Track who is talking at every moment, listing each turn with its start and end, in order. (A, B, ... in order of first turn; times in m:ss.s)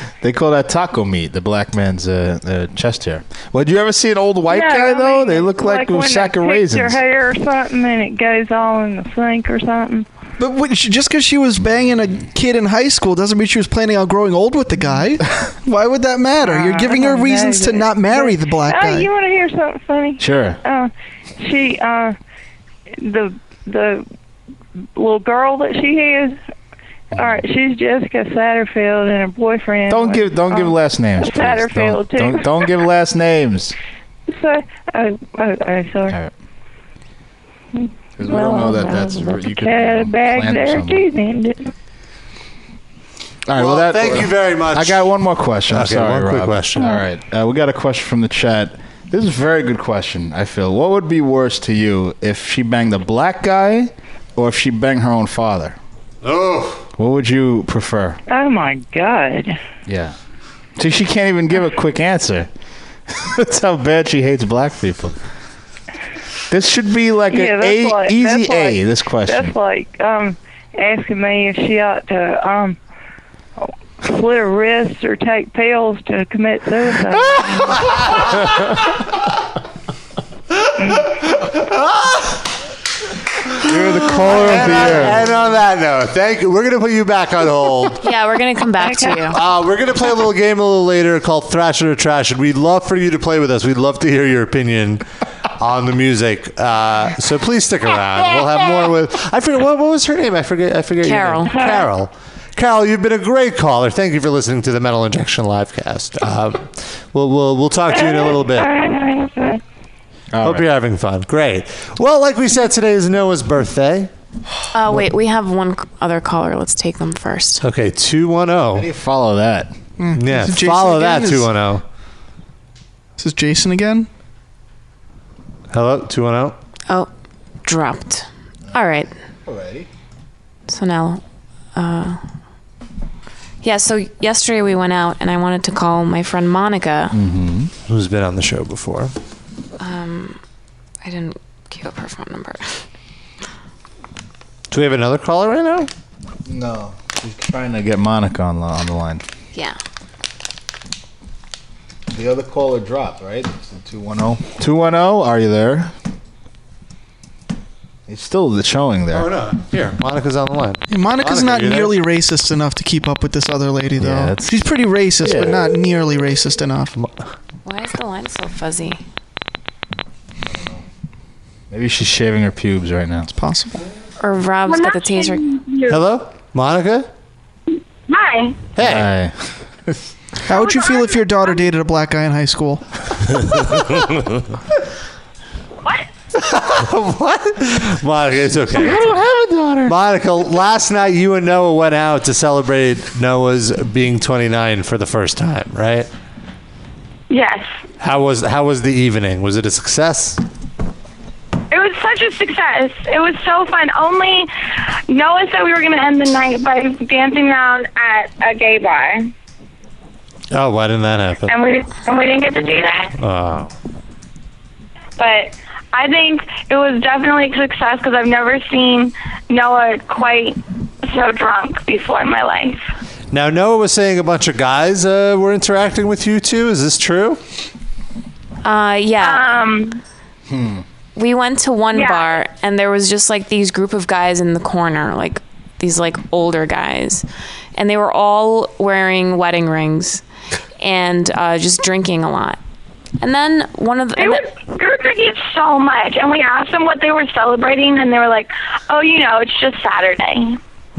0:00.2-0:07.0 A
0:04.5-0:10.1 B
0:10.4-0:19.1 C
0:16.4-0:22.2 B
0:20.2-0:20.6 A
0:23.0-0:24.0 B
0:25.0-0:26.4 B
0:27.1-0:32.7 B
0:27.1-0:27.4 A
0:29.9-0:33.8 A
0:34.3-0:36.2 B
0:37.7-0:41.7 B
0:38.2-0:41.0 A
0:43.4-0:55.8 A
0:43.5-0:45.1 D
0:45.7-0:47.0 D
0:56.2-0:56.8 D
0:57.0-0:58.2 A
0:58.3-0:59.6 B
0:59.8-1:00.1 A
1:00.8-1:02.5 A
1:03.1-1:05.2 A
1:06.5-1:09.5 A
1:07.3-1:12.8 B
1:14.0-1:18.0 B
1:21.2-1:22.3 D
1:23.6-1:25.3 A
1:23.7-1:28.0 D
1:28.0-1:29.4 E
1:28.8-1:29.2 B
1:29.3-1:35.0 D
1:35.6-1:48.7 D
1:41.0-1:41.6 E
1:47.9-1:49.6 B
1:50.3-1:50.6 A
1:50.4-1:54.1 D
1:54.7-1:57.6 E
1:57.6-1:58.9 D
1:58.7-1:59.7 A
2:00.0-2:01.5 C
2:00.2-2:01.8 D
2:03.2-2:04.1 C
2:05.7-2:06.6 D
2:07.6-2:09.1 E
2:09.4-2:09.9 A
2:10.7-2:11.2 E
2:11.7-2:12.2 E
2:13.6-2:17.1 E
2:17.1-2:17.7 A
2:17.9-2:19.1 D
2:19.8-2:20.4 E
2:21.0-2:22.8 E
2:24.7-2:25.9 D
2:26.4-2:29.2 A
2:32.1-2:35.9 A
2:38.1-2:39.3 A
2:39.1-2:42.0 D
2:40.9-2:46.9 C
2:44.0-2:44.6 A
2:45.2-2:45.7 A
2:47.6-2:49.0 E
2:50.5-2:50.8 A
2:51.7-2:53.3 A
2:53.3-2:53.8 C
2:54.2-2:55.4 E
2:54.7-2:56.0 F
2:55.9-2:57.1 D
2:58.1-2:58.6 F
2:58.8-2:59.1 D
2:58.8-2:59.3 A
3:00.4-3:03.4 C
3:00.5-3:01.6 F
3:06.4-3:09.1 D
3:08.7-3:09.9 A
3:09.8-3:16.1 D
3:17.3-3:17.7 F
3:18.0-3:20.4 D
3:21.7-3:24.5 F
3:25.1-3:29.3 F
3:30.5-3:31.6 D
3:31.5-3:33.1 F
3:33.2-3:33.7 D
3:35.2-3:42.8 F
3:43.3-3:47.4 D
3:48.6-3:49.4 E
3:49.2-3:50.0 F
3:50.5-3:50.8 A
3:51.2-3:57.2 E
3:51.9-3:52.4 F
3:57.8-4:00.2 E
4:00.8-4:02.6 E
4:03.2-4:04.4 E
4:04.2-4:10.6 F